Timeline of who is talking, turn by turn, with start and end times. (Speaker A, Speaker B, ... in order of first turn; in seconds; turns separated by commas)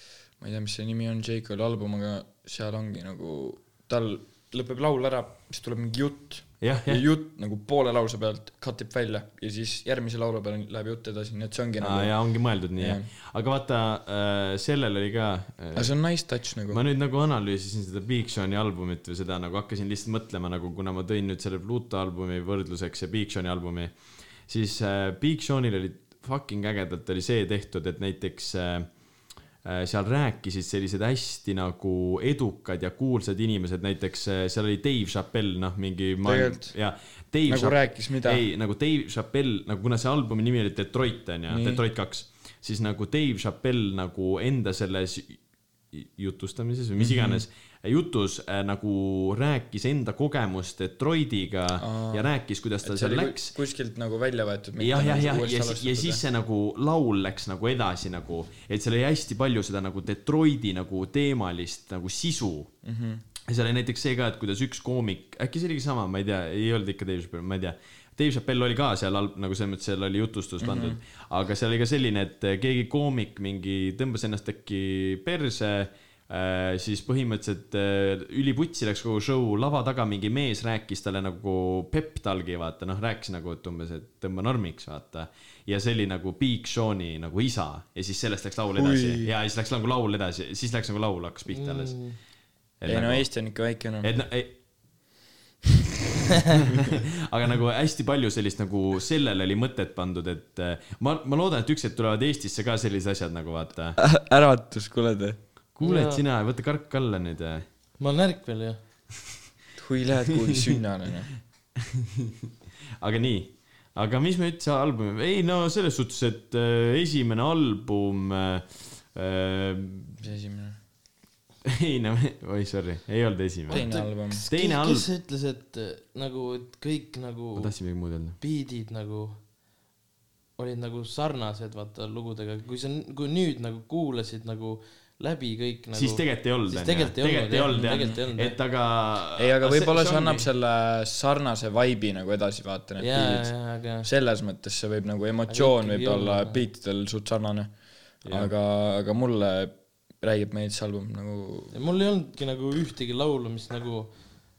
Speaker A: 0.4-13.1, Speaker B: 6.6-7.0, Speaker B: 11.8-16.0, Speaker A: 15.7-16.8, Speaker B: 16.7-29.0, Speaker B: 29.6-53.5, Speaker A: 36.2-36.8, Speaker A: 37.5-38.4, Speaker A: 41.5-41.8, Speaker A: 47.0-47.4, Speaker A: 51.8-52.3, Speaker A: 52.8-56.2, Speaker B: 54.8-62.7, Speaker A: 62.8-63.2, Speaker B: 63.5-92.2, Speaker A: 70.6-71.0, Speaker A: 88.8-89.3, Speaker C: 91.5-92.2, Speaker B: 92.8-93.4, Speaker A: 92.9-94.1, Speaker B: 94.0-95.1, Speaker B: 96.9-104.0, Speaker A: 104.0-105.4, Speaker B: 105.7-107.6, Speaker C: 105.8-106.2, Speaker C: 108.0-108.8, Speaker A: 109.8-111.3, Speaker B: 113.0-120.2, Speaker A: 120.2-120.8, Speaker B: 121.6-125.1, Speaker C: 123.7-129.4, Speaker A: 123.7-124.4, Speaker B: 127.5-128.4, Speaker C: 130.6-138.6, Speaker B: 135.9-140.5, Speaker A: 139.4-151.7, Speaker C: 143.0-144.1, Speaker C: 145.5-146.6, Speaker B: 148.2-148.5, Speaker C: 151.7-154.2